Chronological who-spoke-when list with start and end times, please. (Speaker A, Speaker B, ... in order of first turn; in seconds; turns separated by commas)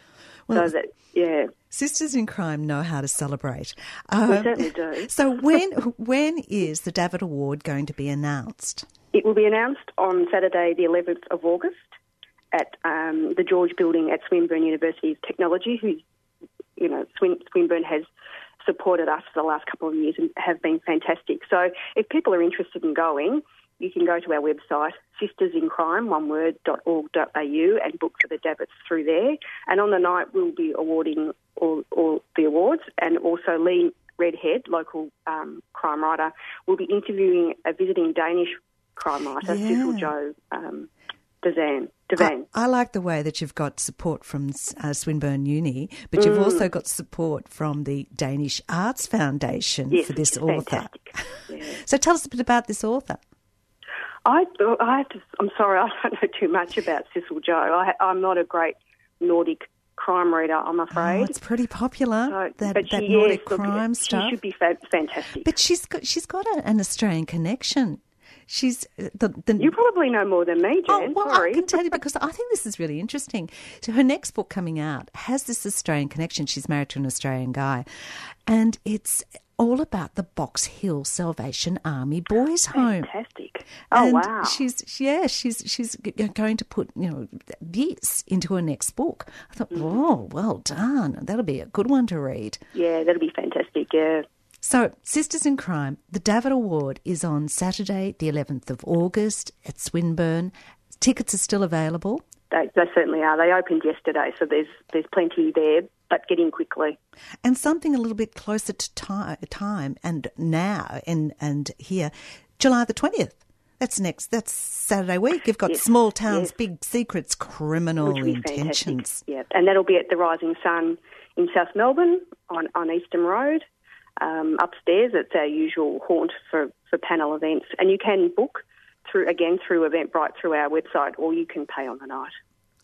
Speaker A: 0.5-1.5, Speaker B: 1.7-8.8, Speaker A: 4.3-5.1, Speaker A: 9.1-11.8, Speaker A: 12.5-16.0, Speaker A: 16.8-18.1, Speaker A: 18.6-40.9, Speaker B: 39.4-40.1, Speaker A: 41.4-42.5, Speaker B: 42.2-53.2, Speaker A: 46.2-46.6, Speaker A: 49.9-51.8, Speaker A: 54.2-61.3, Speaker B: 60.9-64.3, Speaker A: 62.3-65.5, Speaker B: 65.4-69.7, Speaker A: 69.6-71.7, Speaker B: 70.9-77.8, Speaker B: 78.5-83.1, Speaker A: 82.7-84.6, Speaker B: 83.9-92.6, Speaker A: 92.7-94.2, Speaker B: 94.6-102.2, Speaker A: 102.5-107.0, Speaker B: 107.4-119.2, Speaker A: 118.0-123.6, Speaker A: 124.2-132.3